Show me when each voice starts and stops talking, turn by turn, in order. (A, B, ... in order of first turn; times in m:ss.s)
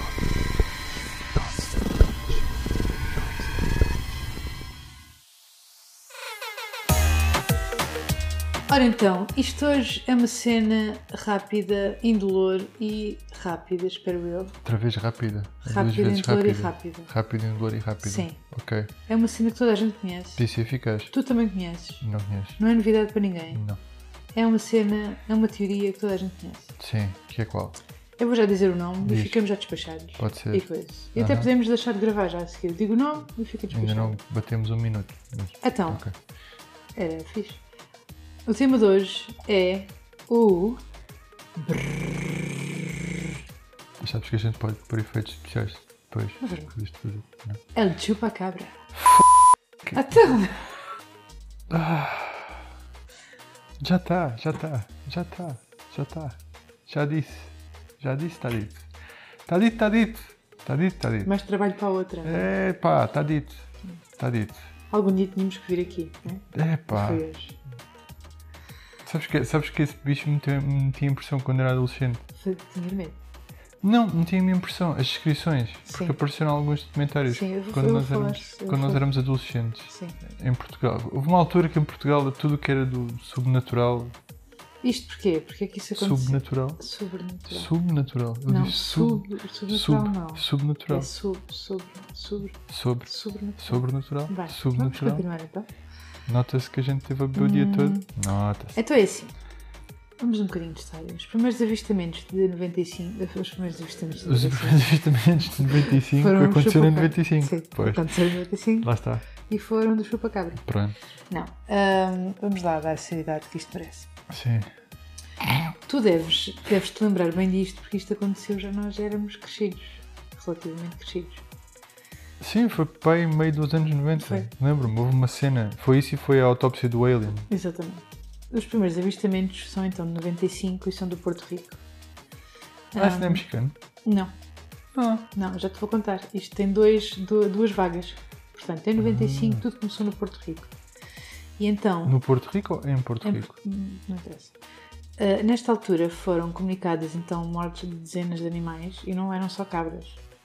0:08.7-0:14.6 A
0:14.6-0:18.9 B
0:15.6-0:17.1 A
0:18.0-0:18.4 A
0:19.1-0:20.5 A
0:20.4-0:21.1 B
0:21.1-0:22.0 A
0:22.0-0:22.6 B
0:22.6-0:23.7 A
0:23.5-0:23.8 B
0:24.3-0:26.8 A
0:26.8-0:27.8 B
0:28.2-0:34.2 A
0:29.0-0:29.4 B
0:30.2-0:31.5 B
0:33.7-0:36.1 B
0:35.6-0:36.0 A
0:37.0-0:37.6 A
0:38.4-0:40.8 A
0:41.6-0:42.7 A
0:44.0-0:47.6 B
0:46.4-0:46.8 A
0:47.7-0:48.8 A
0:49.9-0:50.7 A
0:51.7-0:52.7 B
0:53.8-0:58.9 B
0:59.5-1:01.3 B
1:01.2-1:02.5 A
1:02.2-1:04.7 B
1:04.9-1:07.6 A
1:06.5-1:07.2 B
1:09.0-1:12.2 B
1:12.4-1:13.2 A
1:13.8-1:24.1 B
1:15.9-1:16.2 A
1:17.3-1:19.1 A
1:19.9-1:20.2 A
1:24.8-1:27.7 A
1:25.9-1:26.8 B
1:27.5-1:31.1 B
1:28.5-1:35.7 A
1:32.7-1:35.2 B
1:36.3-1:38.8 B
1:37.3-1:38.1 A
1:38.8-1:39.3 A
1:40.2-1:45.0 A
1:44.2-1:48.1 B
1:45.6-1:50.6 A
1:48.8-1:49.2 B
1:50.6-1:51.0 B
1:51.3-1:54.1 A
1:54.3-1:54.7 B
1:55.7-2:01.4 A
2:02.4-2:07.5 B
2:04.1-2:04.5 A
2:07.5-2:11.8 A
2:12.9-2:13.4 A
2:13.0-2:13.8 B
2:14.0-2:14.3 A
2:14.9-2:15.3 B
2:15.3-2:20.7 A
2:19.0-2:19.6 B
2:21.6-2:22.2 A
2:22.1-2:23.5 B
2:23.2-2:24.6 A
2:25.2-2:30.2 A